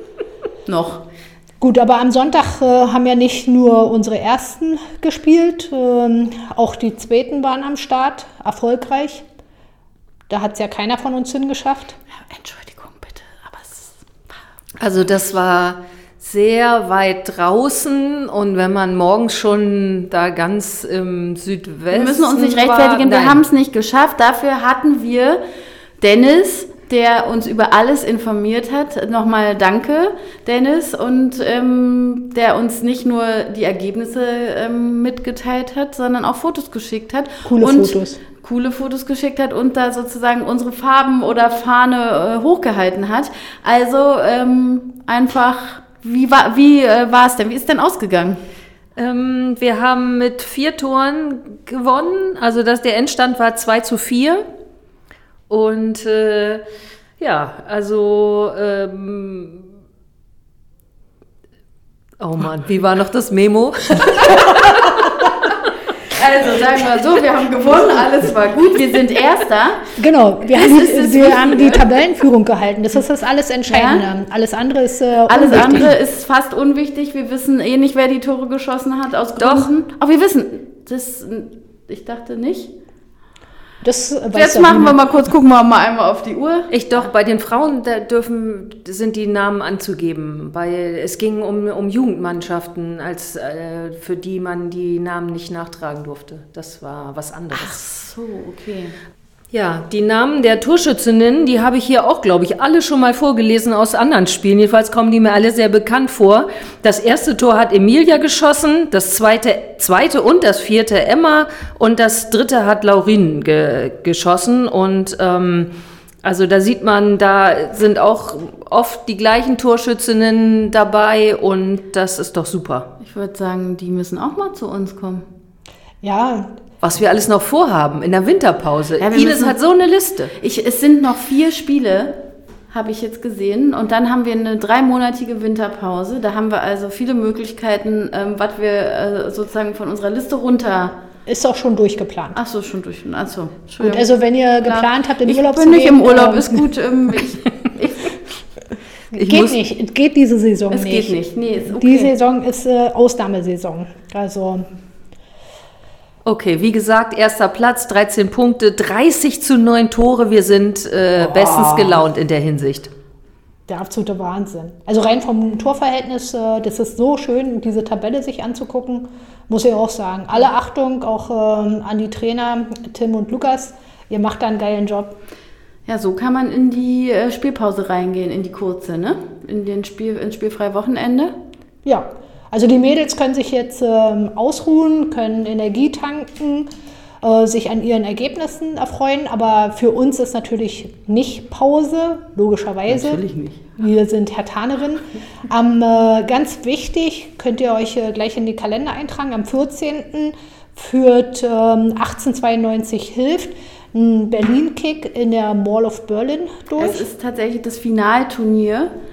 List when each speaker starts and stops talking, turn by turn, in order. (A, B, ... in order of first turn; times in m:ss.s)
0:00.6-0:01.0 A
0:01.6-0:09.2 B
0:10.3-0:12.0 B
0:12.1-0:14.4 A
0:14.8-0:23.4 C
0:21.9-0:25.4 A
0:26.0-0:48.4 A
0:37.4-0:38.2 B
0:49.0-0:54.4 C
0:55.5-0:56.6 C
0:57.2-0:59.7 C
1:02.2-1:04.9 C
1:06.1-1:09.9 A
1:10.0-1:15.9 B
1:10.5-1:11.8 A
1:13.7-1:14.0 A
1:15.3-1:22.7 A
1:19.4-1:19.7 C
1:23.8-1:25.0 B
1:24.3-1:27.1 A
1:26.7-1:37.8 C
1:37.5-1:38.9 A
1:39.5-1:55.7 C
1:56.2-2:02.9 C
2:03.0-2:05.2 A
2:06.0-2:06.6 B
2:06.8-2:10.3 C
2:09.0-2:09.5 A
2:10.4-2:21.0 A
2:21.3-2:22.4 B
2:22.3-2:24.1 A
2:23.8-2:26.6 B
2:24.6-2:28.1 A
2:29.1-2:31.2 B
2:29.1-2:29.6 C
2:30.7-2:32.1 A
2:31.7-2:34.7 B
2:36.2-2:42.9 C
2:41.2-2:42.0 B
2:43.7-2:55.2 B
2:55.8-3:01.4 A
3:01.8-3:06.7 B
3:07.2-3:13.2 B
3:12.9-3:13.6 A
3:13.8-3:27.0 B
3:26.8-3:28.9 A